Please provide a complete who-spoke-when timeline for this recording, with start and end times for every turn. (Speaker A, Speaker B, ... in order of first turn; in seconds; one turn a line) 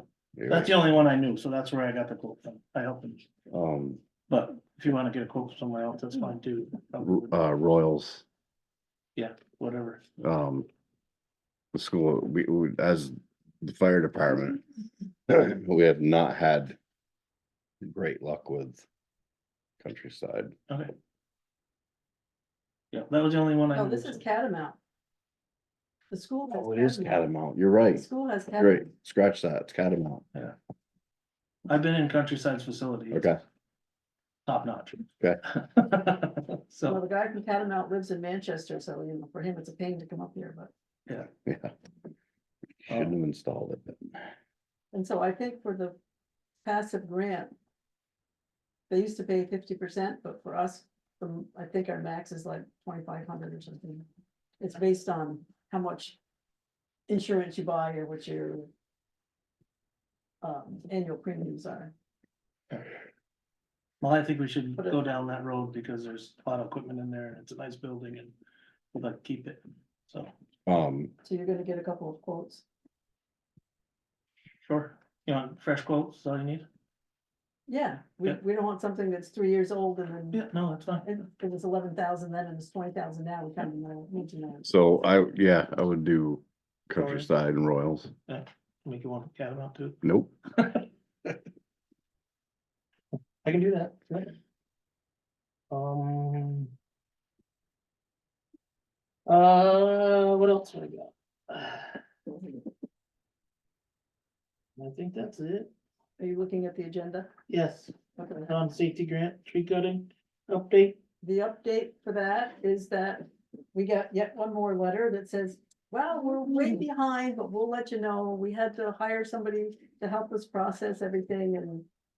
Speaker A: 0.4-0.7
Speaker B: 0.5-3.3
Speaker A: 3.5-4.0
Speaker B: 4.3-7.4
Speaker A: 7.0-8.2
Speaker B: 9.2-10.0
Speaker A: 10.2-10.7
Speaker A: 11.7-14.6
Speaker A: 15.3-16.8
Speaker A: 17.8-18.9
Speaker A: 19.8-20.5
Speaker B: 22.9-24.2
Speaker C: 23.7-24.8
Speaker C: 26.1-27.2
Speaker A: 26.5-28.1
Speaker C: 27.9-28.9
Speaker A: 28.6-30.2
Speaker B: 31.7-33.3
Speaker A: 33.1-33.4
Speaker B: 34.5-37.0
Speaker C: 36.9-40.7
Speaker A: 41.5-41.7
Speaker A: 42.9-44.3
Speaker B: 42.9-43.1
Speaker C: 44.9-46.0
Speaker C: 46.6-47.5
Speaker C: 48.9-54.0
Speaker C: 54.6-56.2
Speaker C: 57.1-58.7
Speaker C: 60.4-61.9
Speaker B: 64.0-68.3
Speaker B: 68.9-70.3
Speaker A: 70.7-71.1
Speaker C: 71.2-72.7
Speaker B: 74.7-76.7
Speaker C: 77.7-80.5
Speaker B: 80.3-81.1
Speaker C: 81.1-84.7
Speaker A: 84.6-88.1
Speaker B: 86.9-87.3
Speaker B: 88.3-90.0
Speaker A: 90.0-90.3
Speaker B: 90.6-91.3
Speaker B: 93.4-94.3
Speaker B: 95.7-96.7
Speaker B: 99.3-102.0
Speaker B: 104.8-105.7
Speaker C: 106.2-107.3
Speaker B: 107.5-107.9
Speaker C: 108.2-108.5
Speaker B: 108.5-111.0
Speaker C: 111.2-121.9